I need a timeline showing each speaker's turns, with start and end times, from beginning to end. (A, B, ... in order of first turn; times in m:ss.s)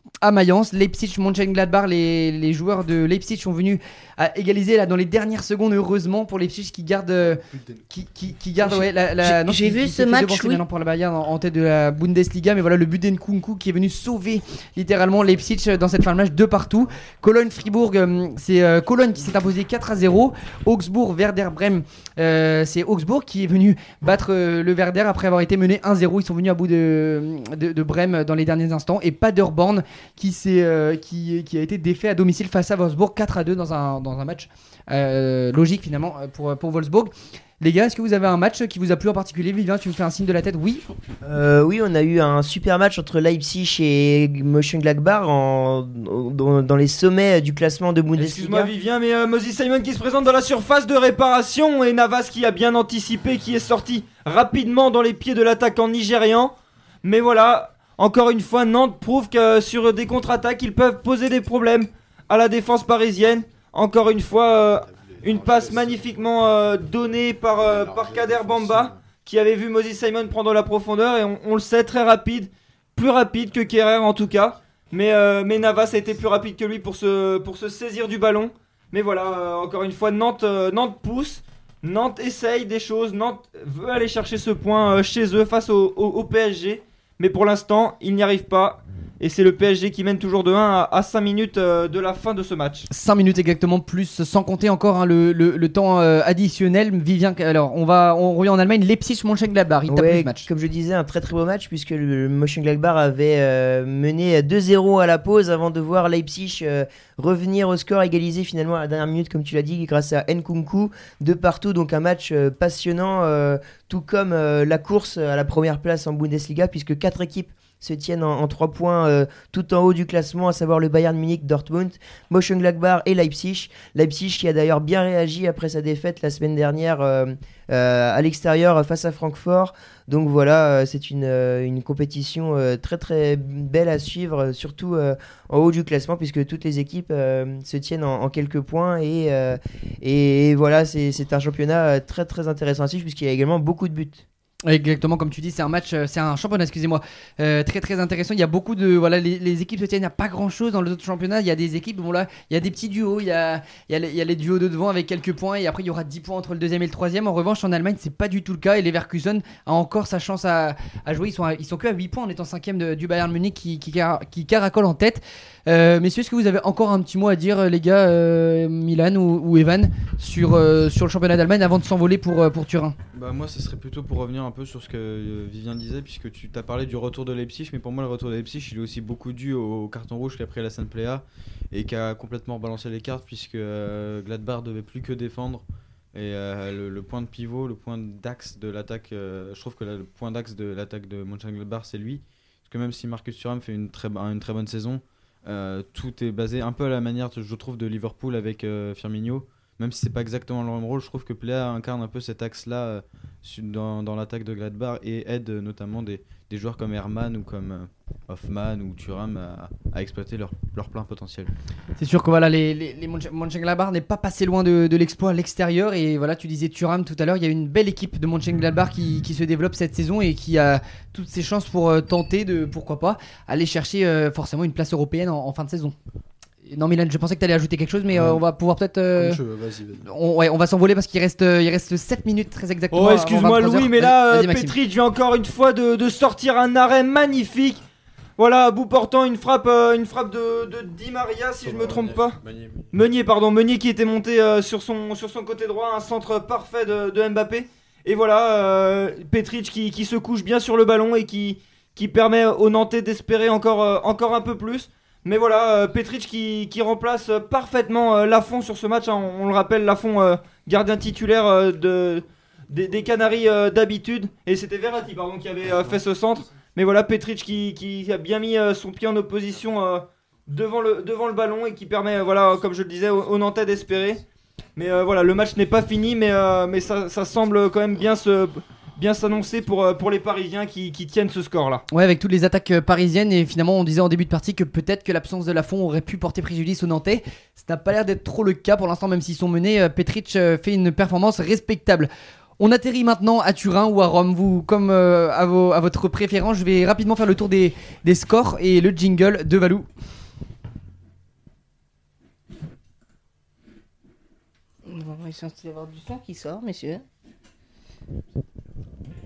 0:00.2-0:40.8 A
0:07.4-0:07.8 B
0:08.6-0:10.6 C
0:41.2-0:48.7 D
0:48.2-1:32.9 E
1:05.3-1:06.0 B
1:08.0-1:09.0 B
1:32.9-1:40.5 A
1:39.9-2:24.2 D
2:24.7-2:53.0 A
2:53.1-3:31.5 F
3:32.0-3:46.0 A
3:46.7-3:49.4 A
3:48.1-3:48.4 B
3:49.1-3:50.0 B
3:50.0-3:54.8 A
3:52.9-3:57.8 E
3:58.4-4:02.4 E
4:01.6-4:02.8 B
4:02.9-4:34.2 E
4:34.8-4:41.8 E
4:41.9-4:59.9 A
5:04.8-5:07.0 C